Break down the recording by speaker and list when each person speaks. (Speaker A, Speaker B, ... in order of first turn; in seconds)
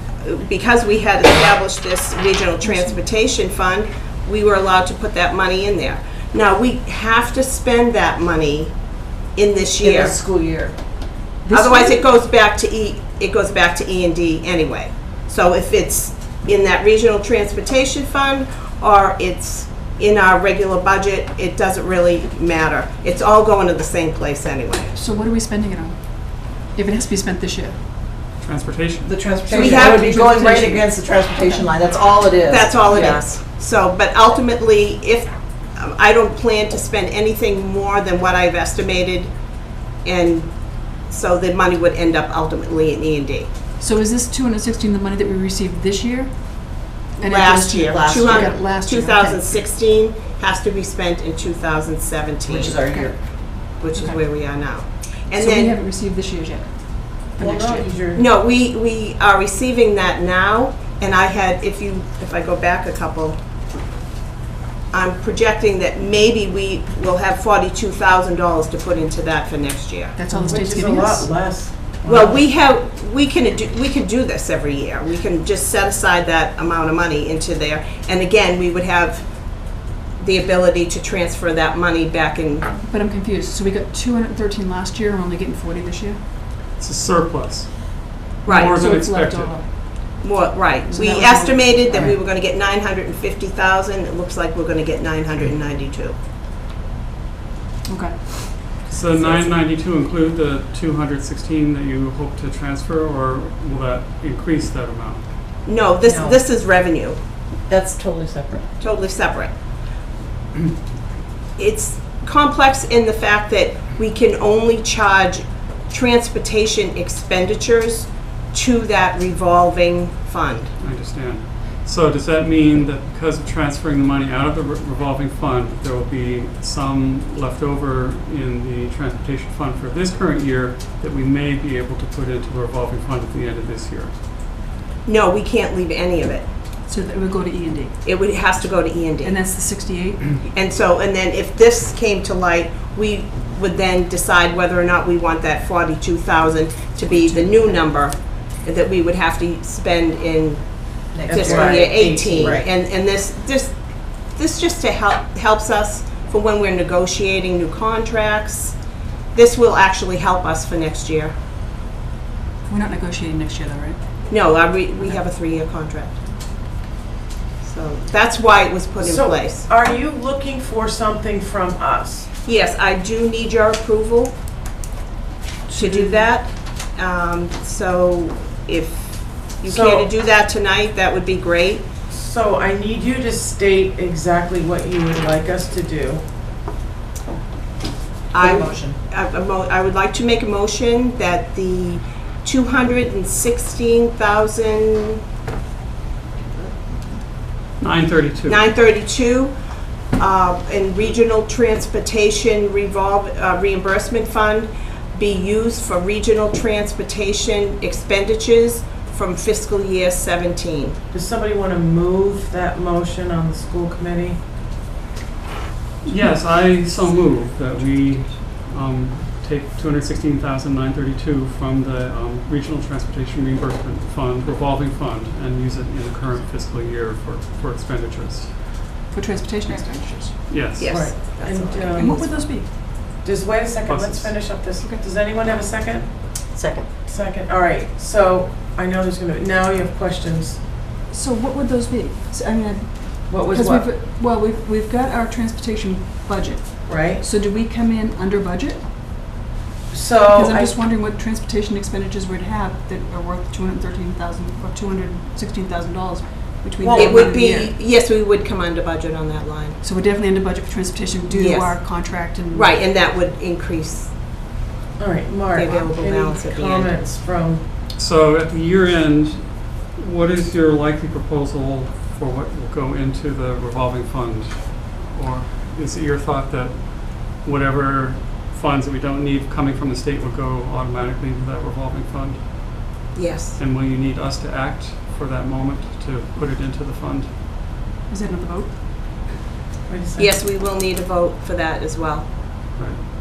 Speaker A: 0.2-8.7, 9.3-10.2, 11.5-25.0, 29.5-30.1, 32.5-39.3, 40.0-40.5, 41.1-43.5, 47.2-53.2, 53.8-55.7, 58.1-63.4, 64.9-70.2, 72.1-79.3, 80.2-82.7, 88.4-88.8, 90.2-96.2, 105.7-107.2, 108.8-109.5, 111.6-120.7, 135.1-136.5, 138.0-139.4, 140.4-153.8, 154.3-158.8, 159.3-161.3, 164.3-166.2, 167.6-169.7, 172.4-174.3, 175.7-181.9, 188.3-195.2, 198.5-199.6, 200.2-211.0, 230.8-232.2, 256.9-259.8, 261.3-264.1, 265.5-266.9, 283.1-283.6, 290.2-292.3
Speaker B: 9.8-10.8, 29.0-33.2, 47.8-48.5, 52.5-53.9, 107.7-108.6, 151.1-152.6, 188.4-189.0, 236.5-236.9
Speaker C: 24.9-27.8, 29.9-31.8, 43.8-49.5, 52.8-53.1, 53.9-54.3, 55.4-57.9, 70.2-71.3, 82.8-86.3, 88.7-89.7, 90.8-92.1, 97.9-98.7, 136.9-138.0, 139.2-140.3, 147.2-147.8, 162.7-164.0, 229.1-230.4, 232.0-232.7, 234.8-235.0, 241.1-248.9, 250.4-257.8, 259.8-262.8, 288.1-288.8
Speaker D: 28.4-29.2, 86.8-89.5, 98.9-105.3, 120.8-134.2, 197.8-198.7, 216.0-228.6, 230.5-231.5, 233.9-234.6, 268.0-287.4
Speaker E: 29.5-29.9, 57.4-58.2, 70.3-72.4, 106.1-106.4, 151.3-152.6, 169.0-172.3, 175.7-176.3, 179.7-180.1, 182.1-186.3, 211.1-214.4, 230.8-232.6, 233.2-240.6, 243.3-243.9, 246.9-247.2, 249.9-250.8, 256.8-257.3, 265.0-267.6, 289.9-290.3